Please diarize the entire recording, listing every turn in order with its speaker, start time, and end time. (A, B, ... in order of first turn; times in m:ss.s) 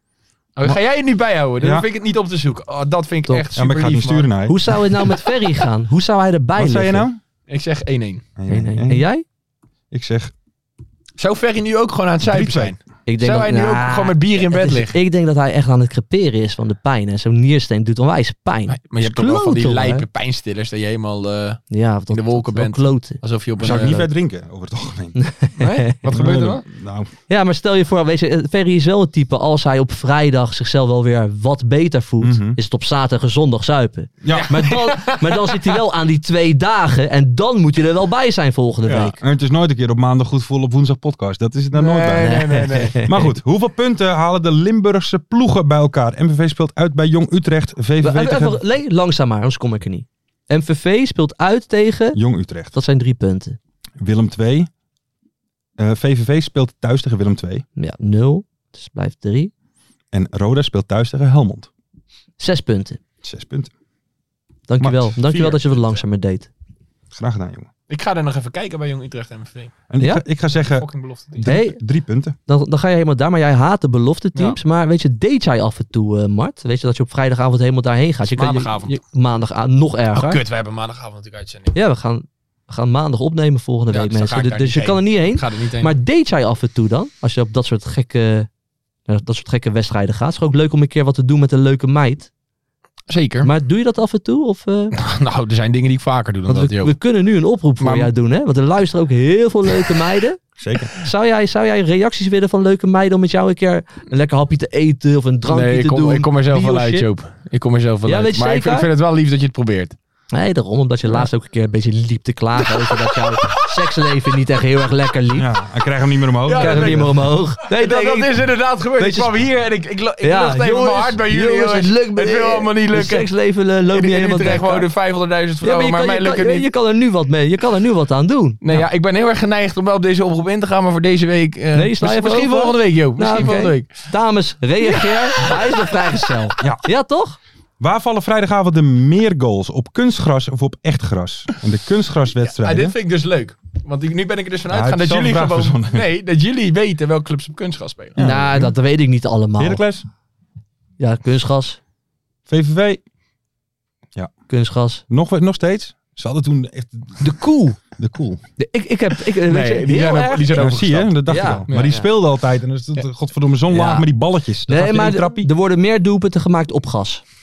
0:00.6-0:04.3 A
0:01.6-0:01.8 B
0:03.6-0:04.6 B
0:04.5-0:07.1 C
0:06.6-0:07.2 B
0:07.5-0:08.2 A
0:08.4-0:09.1 B
0:08.5-0:09.2 C
0:09.9-0:10.3 B
0:11.2-0:15.0 A
0:12.2-0:12.8 B
0:13.1-0:20.0 C
0:18.7-0:24.0 A
0:21.7-0:24.1 C
0:23.6-0:25.2 B
0:25.2-0:26.0 C
0:25.6-0:26.6 A
0:26.1-0:27.1 B
0:27.3-0:39.2 C
0:32.2-0:32.6 B
0:34.2-0:34.6 B
0:34.3-0:35.8 A
0:38.8-0:39.1 A
0:39.2-0:48.6 B
0:41.7-0:43.0 A
0:42.2-0:43.3 C
0:48.0-0:52.2 C
0:52.1-0:52.8 B
0:52.7-0:53.6 C
0:54.0-0:54.7 B
0:55.8-0:57.6 B
0:57.8-0:59.5 C
1:00.1-1:01.7 B
1:02.4-1:03.0 C
1:03.2-1:03.7 B
1:04.7-1:06.5 C
1:04.8-1:05.2 B
1:05.3-1:06.0 A
1:07.1-1:07.7 B
1:07.9-1:09.7 A
1:09.9-1:12.4 B
1:10.5-1:11.5 A
1:11.4-1:11.8 C
1:12.5-1:20.4 C
1:18.4-1:19.0 A
1:20.2-1:21.8 A
1:21.7-1:28.5 C
1:23.9-1:25.9 A
1:29.1-1:32.3 C
1:33.1-1:33.5 A
1:33.4-1:35.0 C
1:35.0-1:37.0 A
1:36.5-1:40.4 C
1:37.8-1:38.1 A
1:40.6-1:40.9 B
1:41.0-1:47.1 C
1:45.5-1:50.0 A
1:48.1-1:48.9 C
1:50.3-1:55.6 C
1:52.9-1:53.6 A
1:55.4-1:57.1 B
1:56.4-2:03.3 A
1:56.6-1:58.4 C
1:59.0-1:59.3 C
2:00.2-2:04.9 C
2:03.9-2:06.7 A
2:05.6-2:08.6 C
2:08.6-2:14.1 A
2:11.7-2:17.4 C
2:14.8-2:15.9 A
2:16.6-2:16.8 B
2:17.8-2:23.0 B
2:22.4-2:28.2 A
2:24.7-2:26.1 B
2:28.2-2:28.8 B
2:28.2-2:29.8 C
2:29.6-2:30.0 B
2:31.0-2:31.8 C
2:32.5-2:33.0 B
2:34.5-2:35.0 C
2:35.1-2:37.3 B
2:37.2-2:37.8 C
2:38.0-2:38.4 B
2:38.6-2:40.7 C
2:39.4-2:42.0 A
2:40.5-2:45.5 B
2:41.3-2:42.1 C
2:43.7-2:44.1 C
2:44.7-2:47.2 C